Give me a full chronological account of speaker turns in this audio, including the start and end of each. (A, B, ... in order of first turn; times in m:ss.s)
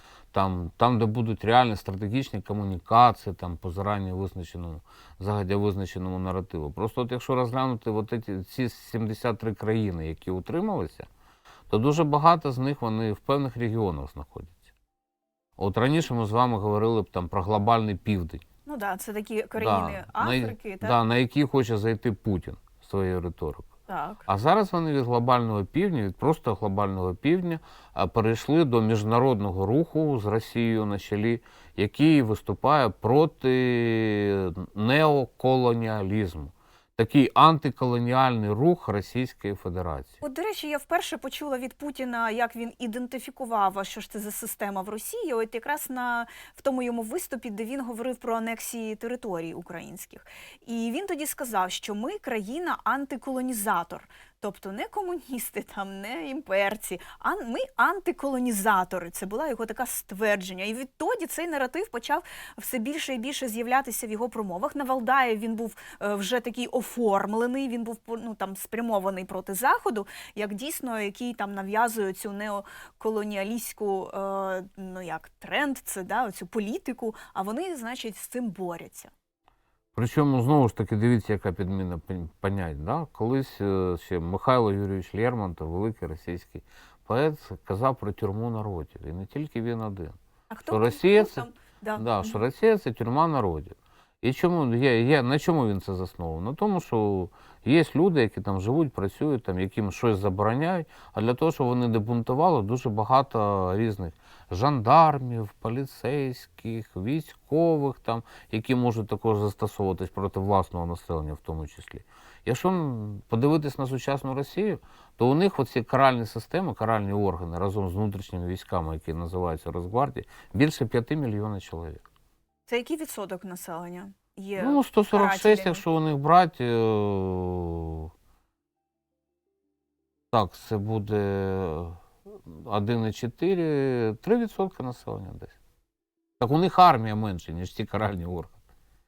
0:00.3-0:11.1 A
0:11.7-0:14.7 A
0:15.6-0:18.4 A
0:18.6-0:21.0 B
0:19.6-0:23.7 A
0:23.9-0:24.2 B
0:24.2-0:40.2 A
0:40.2-1:19.1 B
1:19.9-2:02.0 A
1:30.5-1:32.4 B
2:02.7-2:05.8 B
2:04.6-2:08.1 A
2:10.3-2:15.5 A
2:16.4-2:18.5 A